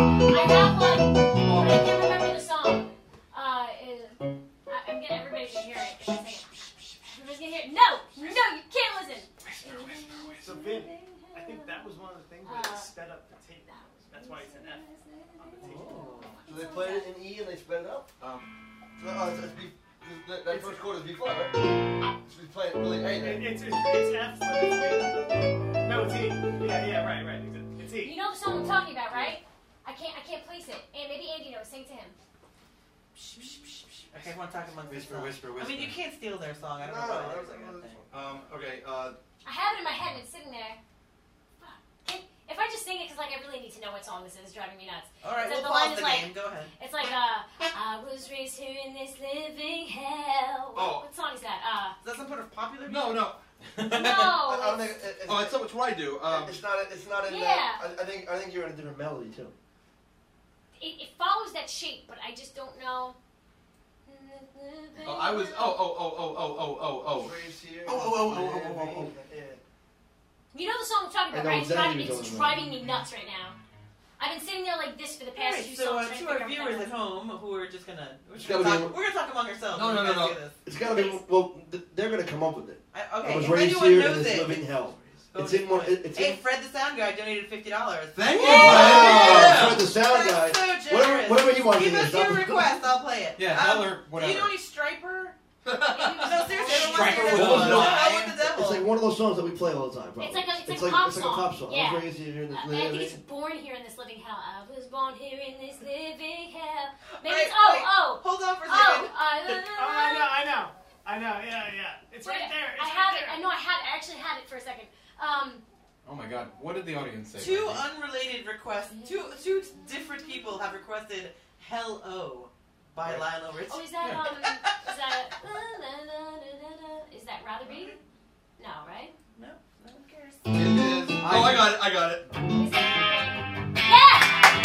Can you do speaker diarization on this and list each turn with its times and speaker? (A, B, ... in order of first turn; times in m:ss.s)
0:00.3-0:11.9 A
0:01.4-0:01.8 B
0:09.6-0:10.0 C
0:10.4-0:16.3 D
0:12.4-0:12.9 A
0:13.7-0:17.1 A
0:16.0-0:18.1 E
0:18.2-0:18.5 B
0:19.0-0:21.7 E
0:20.5-0:20.8 D
0:22.2-0:23.5 E
0:23.0-0:25.3 D
0:25.8-0:28.2 D
0:28.0-0:32.2 A
0:33.2-0:38.0 F
0:34.8-0:36.0 C
0:36.8-0:38.2 E
0:38.1-0:39.2 B
0:39.4-0:40.8 A
0:41.6-0:52.0 A
0:45.2-0:46.7 F
0:50.7-0:51.0 B
0:52.0-0:53.2 F
0:52.9-0:53.4 B
0:53.7-0:54.4 C
0:53.8-0:54.9 A
0:54.4-0:55.6 E
0:55.3-0:56.6 B
0:56.2-0:59.5 E
0:57.2-0:57.8 A
1:00.8-1:03.2 A
1:04.0-1:05.8 A
1:05.0-1:07.4 B
1:07.2-1:09.6 E
1:07.9-1:09.1 C
1:10.5-1:13.6 A
1:11.3-1:12.7 E
1:14.2-1:16.9 A
1:15.3-1:20.6 F
1:18.4-1:19.0 E
1:19.7-1:20.4 B
1:20.6-1:26.4 E
1:20.9-1:21.2 A
1:22.9-1:24.6 F
1:25.3-1:35.4 F
1:28.2-1:29.9 B
1:28.4-1:29.1 A
1:28.4-1:32.8 E
1:33.4-1:34.6 C
1:35.6-1:36.4 B
1:35.9-1:37.5 A
1:36.2-1:38.9 F
1:36.5-1:38.4 C
1:37.2-1:38.0 B
1:37.3-1:43.2 E
1:40.2-1:50.4 A
1:47.2-1:49.2 F
1:49.6-1:53.4 D
1:52.2-1:55.6 A
1:56.0-1:57.9 C
1:57.4-2:03.9 F
1:58.9-1:59.9 A
2:03.7-2:08.0 A
2:04.0-2:04.3 C
2:07.6-2:08.0 F
2:08.6-2:09.2 A
2:09.4-2:10.4 F
2:10.5-2:12.3 B
2:11.2-2:11.8 C
2:12.5-2:14.4 A